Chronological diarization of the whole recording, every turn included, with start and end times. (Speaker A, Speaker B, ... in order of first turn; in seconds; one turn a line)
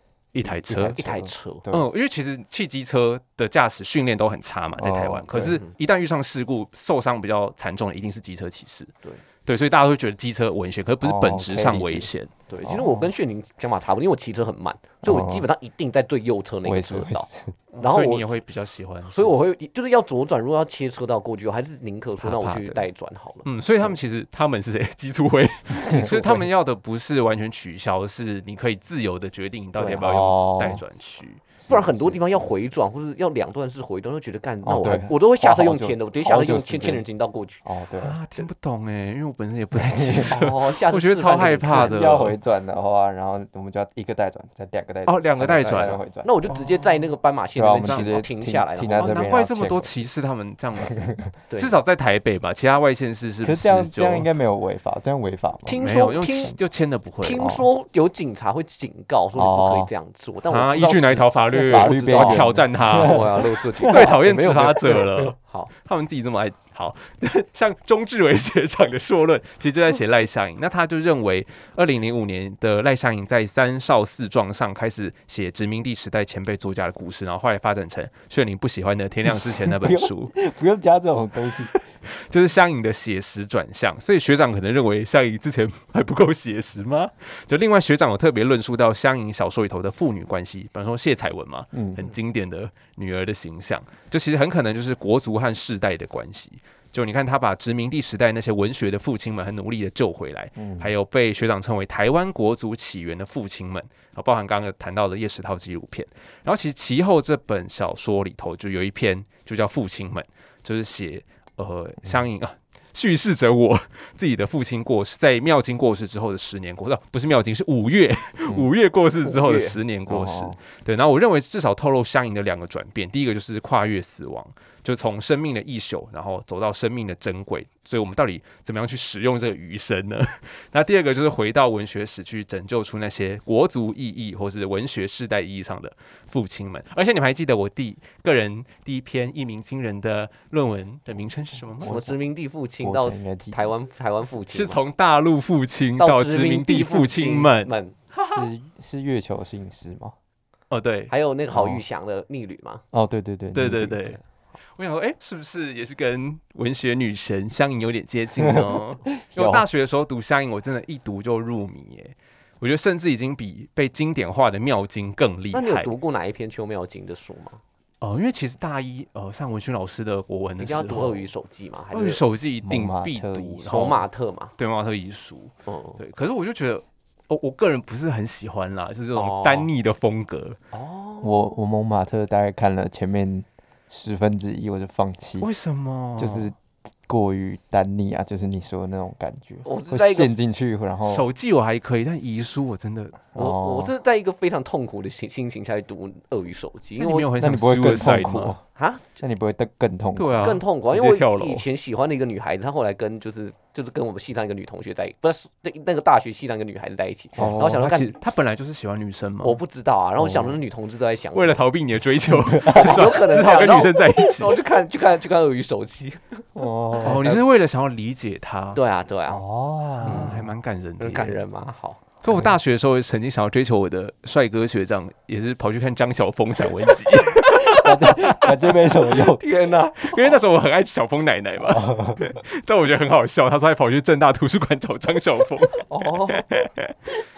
Speaker A: 0.3-1.0
Speaker B: 0.5-1.9
Speaker C: 0.9-1.6
Speaker A: 1.7-8.9
Speaker B: 4.8-5.6
Speaker C: 5.4-5.7
Speaker A: 9.5-12.3
Speaker B: 11.0-12.1
Speaker C: 12.5-17.3
Speaker B: 12.6-13.1
Speaker B: 15.0-15.5
Speaker B: 16.6-17.5
Speaker A: 17.7-19.3
Speaker C: 17.8-18.3
Speaker C: 19.1-23.5
Speaker A: 22.2-22.9
Speaker A: 23.4-31.4
Speaker B: 25.8-26.5
Speaker B: 29.8-30.8
Speaker B: 31.6-32.5
Speaker C: 31.7-37.6
Speaker B: 34.6-37.0
Speaker B: 37.6-38.2
Speaker A: 38.0-42.4
Speaker B: 39.8-40.4
Speaker C: 40.3-42.0
Speaker B: 41.7-46.5
Speaker A: 45.1-47.1
Speaker C: 46.2-49.3
Speaker B: 47.5-49.9
Speaker A: 47.8-48.1
Speaker A: 49.0-51.0
Speaker B: 50.8-51.3
Speaker C: 51.5-51.8
Speaker A: 51.6-54.3
Speaker B: 53.4-55.8
Speaker C: 55.7-56.6
Speaker A: 55.8-57.6
Speaker C: 57.2-65.7
Speaker B: 59.4-59.9
Speaker A: 60.5-63.3
Speaker B: 61.5-64.1
Speaker A: 63.8-80.3
Speaker B: 79.3-81.8
Speaker A: 81.7-142.0
Speaker B: 91.7-92.0
Speaker B: 100.6-100.9
Speaker C: 119.3-119.8
Speaker B: 120.1-120.6
Speaker B: 141.8-142.2
Speaker C: 141.8-144.8
Speaker B: 142.8-143.7
Speaker A: 144.5-148.4
Speaker C: 146.0-148.0
Speaker B: 148.3-150.2
Speaker A: 150.7-151.1
Speaker C: 151.1-152.8
Speaker B: 151.5-151.8
Speaker B: 152.9-154.0
Speaker A: 153.5-154.2
Speaker A: 154.7-165.9
Speaker B: 158.4-159.7
Speaker C: 165.5-167.6
Speaker A: 168.0-171.3
Speaker C: 170.6-172.2
Speaker A: 171.9-174.0
Speaker B: 172.6-174.0
Speaker C: 173.7-174.5
Speaker A: 174.6-180.6
Speaker C: 175.7-176.0
Speaker C: 179.2-179.7
Speaker C: 180.7-181.4
Speaker B: 181.2-185.5
Speaker A: 185.4-186.5
Speaker B: 186.2-186.6
Speaker B: 187.1-191.3
Speaker C: 189.7-190.3
Speaker A: 191.1-193.2
Speaker B: 193.3-193.9
Speaker C: 193.4-197.3
Speaker A: 197.0-198.6
Speaker B: 197.4-198.6
Speaker C: 198.8-199.2
Speaker B: 199.2-200.5
Speaker A: 200.2-201.7
Speaker C: 200.4-208.2
Speaker B: 207.4-207.8
Speaker A: 207.4-209.6
Speaker C: 209.4-211.6
Speaker B: 210.2-210.6
Speaker A: 211.3-214.6
Speaker B: 212.5-213.0
Speaker C: 212.6-216.4
Speaker B: 216.6-217.3
Speaker A: 217.0-218.8
Speaker C: 218.8-219.4
Speaker B: 219.3-220.5
Speaker A: 220.0-221.4
Speaker C: 220.0-220.4
Speaker C: 221.0-222.0
Speaker A: 222.2-228.5
Speaker B: 227.5-229.4
Speaker C: 229.0-230.4
Speaker A: 230.0-236.9
Speaker B: 231.6-232.4
Speaker C: 235.9-236.4